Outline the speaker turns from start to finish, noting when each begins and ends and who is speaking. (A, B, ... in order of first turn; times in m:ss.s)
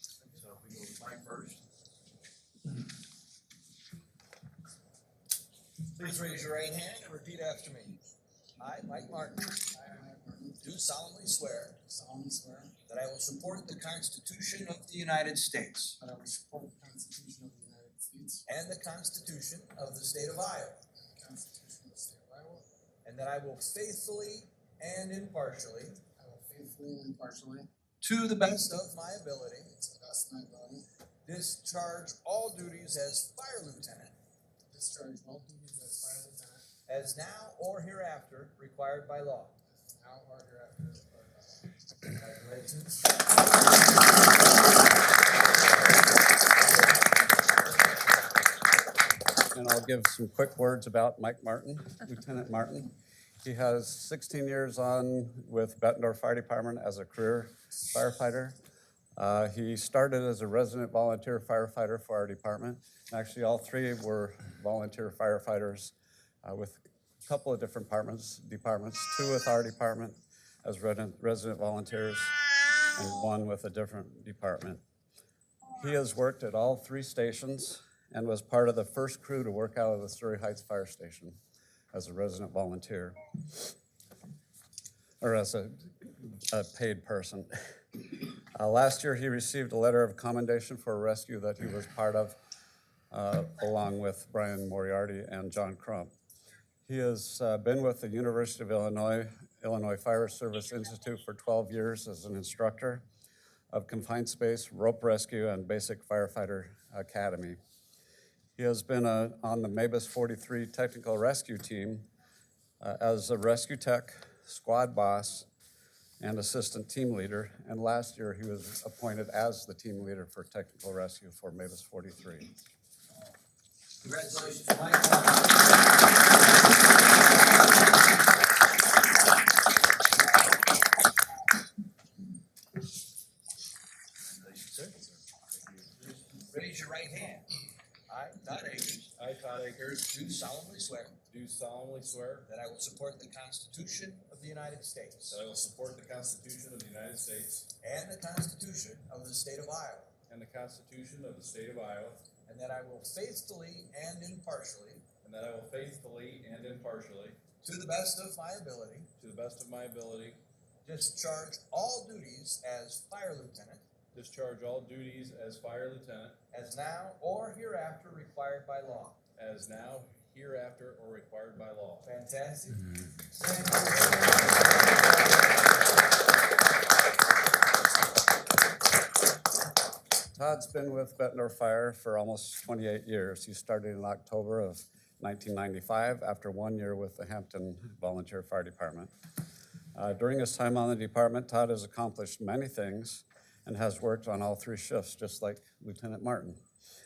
0:00.2-0:01.6 A
0:06.0-0:08.0 A
0:08.6-0:09.7 A
0:09.7-0:10.7 B
0:10.6-0:11.8 A
0:11.8-0:12.7 B
0:12.9-0:16.0 A
0:16.0-0:18.4 B
0:18.5-0:20.8 A
0:20.9-0:22.7 B
0:23.0-0:26.0 A
0:26.2-0:27.7 B
0:28.0-0:29.7 A
0:29.7-0:30.9 B
0:31.2-0:34.1 A
0:34.7-0:36.6 B
0:36.9-0:39.6 A
0:39.9-0:41.7 B
0:42.1-0:43.0 A
0:49.5-0:58.6 C
0:59.2-1:12.3 C
1:12.9-1:14.8 C
1:15.8-1:21.4 C
1:21.9-1:23.7 C
1:25.2-1:32.4 C
1:33.1-1:36.1 C
1:36.9-1:43.0 C
1:43.7-1:47.6 C
1:48.6-1:52.1 C
1:52.8-1:55.5 C
1:56.2-2:02.5 C
2:04.0-2:05.7 A
2:14.6-2:15.0 D
2:16.3-2:17.4 A
2:18.1-2:19.1 A
2:19.2-2:20.0 D
2:20.0-2:21.2 A
2:21.3-2:22.5 D
2:22.5-2:25.4 A
2:25.3-2:27.7 D
2:27.8-2:30.1 A
2:30.3-2:32.2 D
2:32.4-2:35.0 A
2:35.2-2:37.4 D
2:37.6-2:39.1 A
2:39.2-2:40.4 D
2:40.8-2:43.8 A
2:44.1-2:46.4 D
2:46.5-2:49.2 A
2:49.4-2:52.1 D
2:52.0-2:56.0 A
3:00.3-3:09.1 C
3:09.9-3:16.6 C